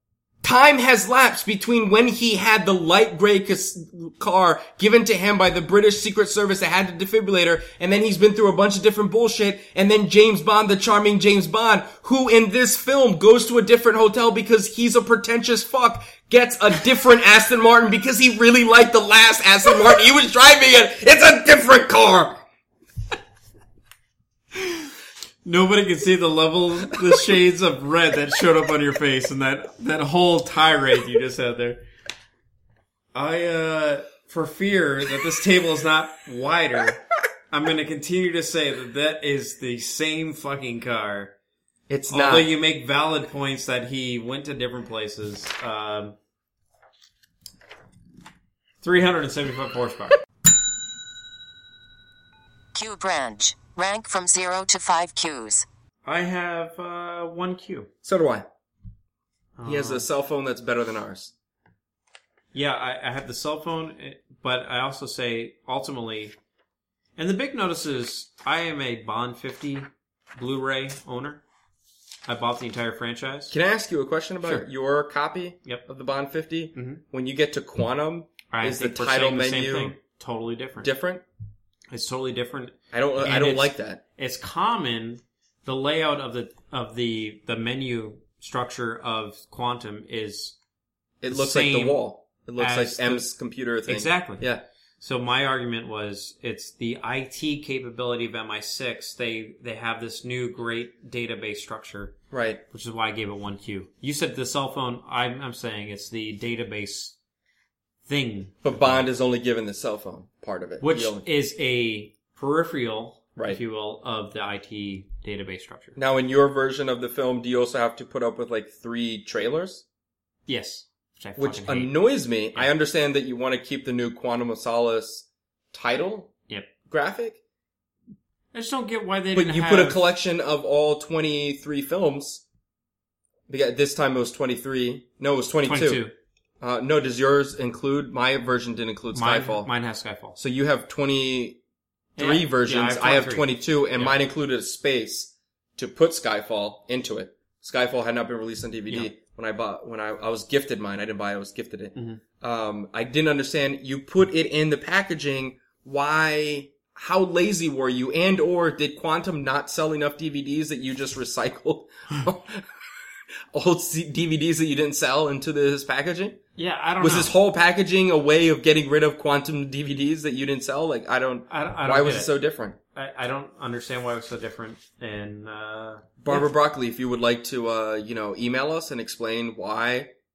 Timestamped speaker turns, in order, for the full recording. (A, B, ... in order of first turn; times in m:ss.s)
0:00.4-0:22.4 A
0:24.6-0:24.9 B
0:25.4-0:31.8 B
0:33.1-0:41.3 B
0:41.9-0:42.5 A
0:42.1-0:46.2 B
0:48.8-0:50.2 B
0:52.7-0:55.6 C
0:56.0-0:57.9 B
0:58.0-0:58.4 A
0:59.6-1:00.0 B
0:59.6-1:01.3 A
1:02.5-1:06.3 B
1:07.2-1:11.4 B
1:12.3-1:13.5 B
1:13.5-1:20.0 A
1:16.7-1:17.0 B
1:18.5-1:20.9 B
1:20.8-1:21.2 A
1:21.9-1:30.5 B
1:22.9-1:24.0 A
1:31.2-1:34.6 A
1:31.3-1:32.0 B
1:32.6-1:33.3 B
1:33.9-1:34.4 B
1:35.0-1:42.1 B
1:42.3-1:42.6 A
1:42.7-1:47.1 B
1:48.1-1:49.0 B
1:48.6-1:51.2 A
1:50.8-1:56.0 B
1:56.0-1:59.8 A
2:00.5-2:02.0 B
2:01.4-2:06.3 A
2:06.9-2:07.4 A
2:08.5-2:10.1 B
2:09.3-2:12.4 A
2:13.5-2:16.0 A
2:15.6-2:16.1 B
2:16.6-2:19.7 A
2:19.1-2:20.4 B
2:20.4-2:21.6 A
2:22.2-2:24.2 B
2:22.2-2:42.7 A
2:31.9-2:32.2 B
2:43.5-2:46.4 A
2:46.6-2:47.3 B
2:47.0-2:52.8 A
2:51.5-2:52.3 B
2:52.9-2:56.5 B
2:56.2-3:00.1 A